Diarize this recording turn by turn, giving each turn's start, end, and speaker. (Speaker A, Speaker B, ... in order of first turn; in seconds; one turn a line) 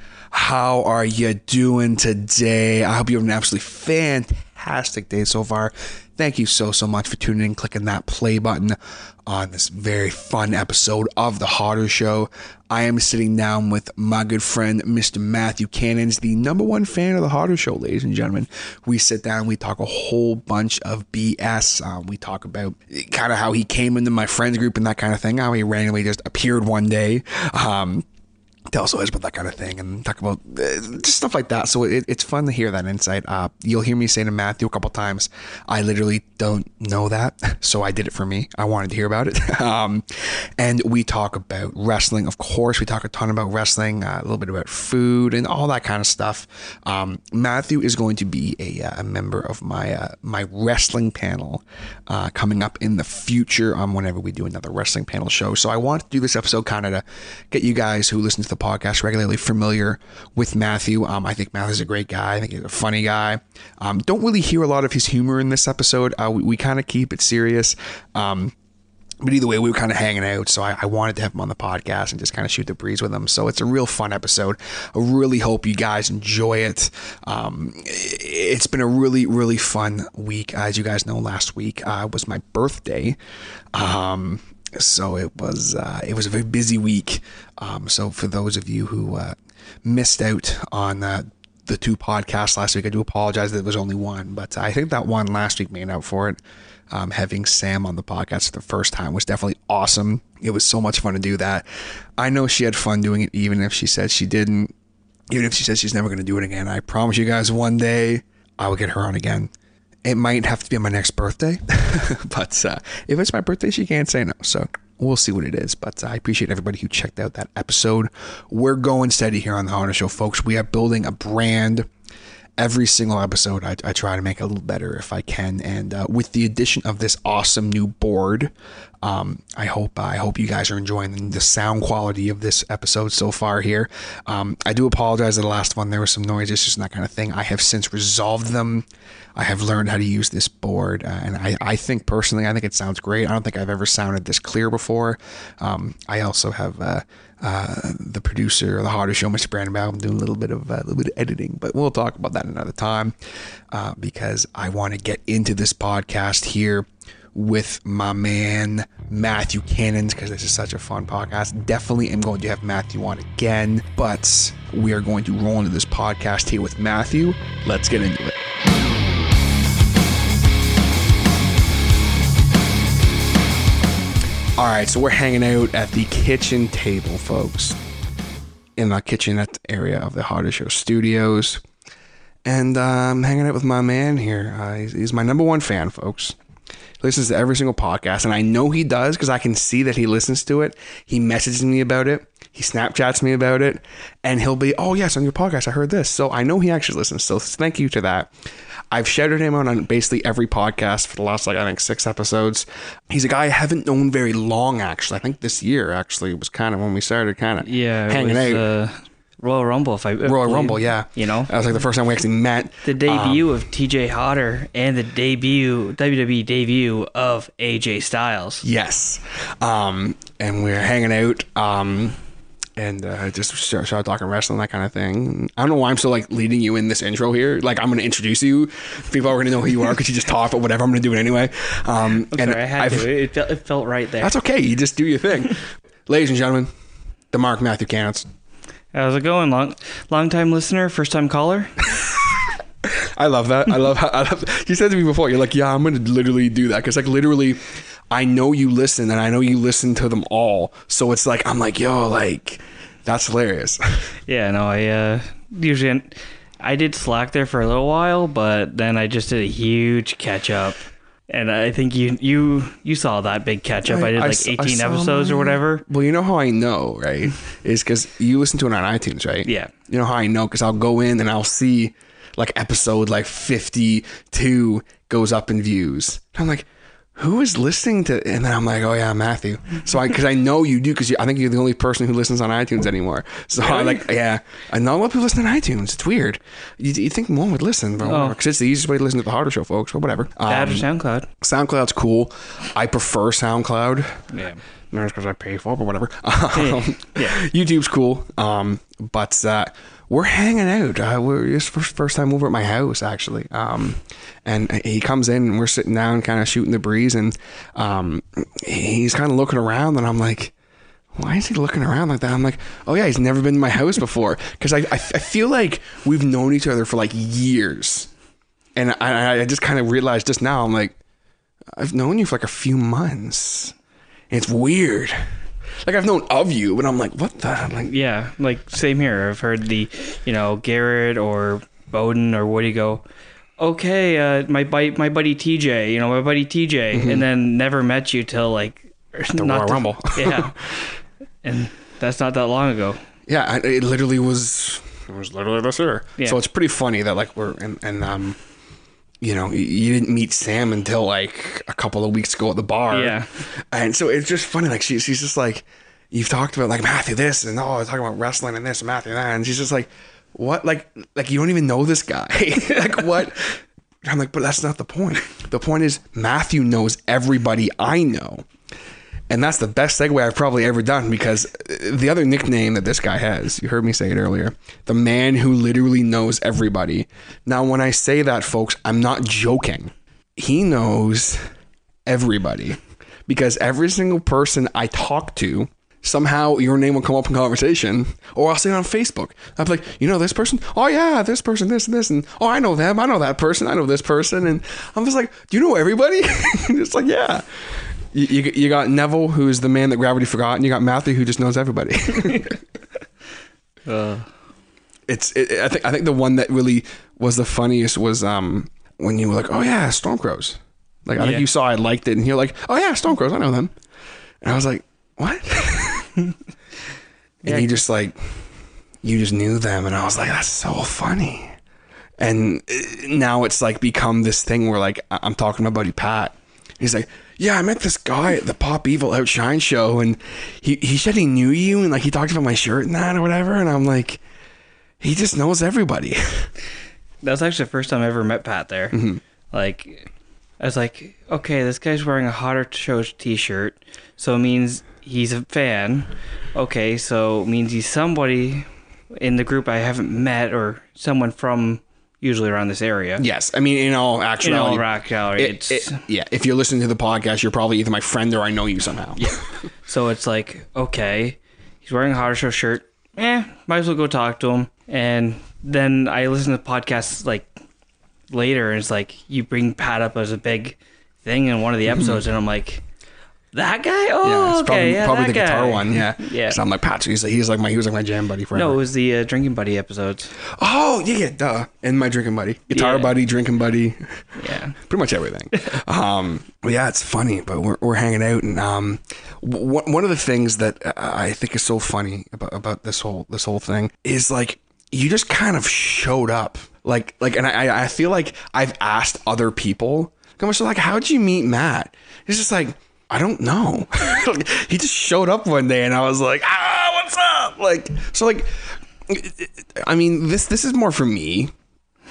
Speaker A: 0.3-28.1
Speaker A: 28.7-68.5
Speaker A: 69.2-83.2
Speaker A: 83.7-96.4
Speaker A: 96.9-101.6
Speaker A: 102.2-104.7
Speaker A: 105.3-109.5
Speaker A: 110.0-121.9
Speaker A: 122.6-128.5
Speaker A: 129.0-138.8
Speaker A: 139.4-153.1
Speaker A: 153.7-168.4
Speaker A: 174.6-177.8
Speaker A: 178.8-181.6
Speaker A: 182.4-186.4
Speaker A: 187.0-198.3
Speaker A: 198.9-208.7
Speaker B: 207.6-211.5
Speaker A: 210.2-213.5
Speaker B: 212.8-218.6
Speaker A: 218.6-222.2
Speaker A: 222.8-233.1
Speaker B: 232.3-234.3
Speaker A: 234.2-236.7
Speaker A: 237.3-238.2
Speaker B: 238.9-241.7
Speaker A: 243.0-247.6
Speaker A: 248.1-253.8
Speaker B: 254.3-260.8
Speaker B: 261.3-265.8
Speaker A: 263.8-290.9
Speaker B: 269.4-269.7
Speaker B: 283.6-284.0
Speaker B: 288.0-288.4
Speaker B: 290.5-291.3
Speaker A: 291.4-294.3
Speaker B: 294.3-294.6
Speaker A: 294.9-310.5
Speaker B: 296.5-297.4
Speaker A: 311.1-318.1
Speaker A: 318.8-320.9
Speaker A: 321.8-323.8
Speaker A: 324.3-325.2
Speaker A: 325.8-327.9
Speaker B: 327.9-333.0
Speaker B: 333.6-340.5
Speaker A: 336.9-337.2
Speaker A: 339.4-340.6
Speaker B: 341.4-343.0
Speaker A: 343.3-348.4
Speaker A: 349.2-353.2
Speaker B: 352.9-353.3
Speaker A: 353.7-368.4
Speaker A: 369.3-381.4
Speaker A: 382.1-397.4
Speaker A: 398.1-402.6
Speaker B: 403.9-404.3
Speaker A: 405.1-413.7
Speaker B: 411.2-411.4
Speaker A: 414.4-416.1
Speaker B: 417.4-417.8
Speaker A: 417.4-418.2
Speaker A: 419.0-421.5
Speaker A: 422.2-434.2
Speaker A: 435.0-436.5
Speaker B: 437.2-439.0
Speaker A: 438.9-439.2
Speaker B: 439.5-440.1
Speaker B: 440.6-453.2
Speaker A: 453.2-459.4
Speaker B: 454.4-456.0
Speaker B: 459.9-467.5
Speaker B: 468.3-472.8
Speaker A: 471.9-472.2
Speaker B: 473.5-476.6
Speaker A: 474.2-478.8
Speaker B: 478.5-480.3
Speaker A: 480.6-508.5
Speaker B: 482.7-483.2
Speaker B: 484.4-484.8
Speaker A: 509.1-511.5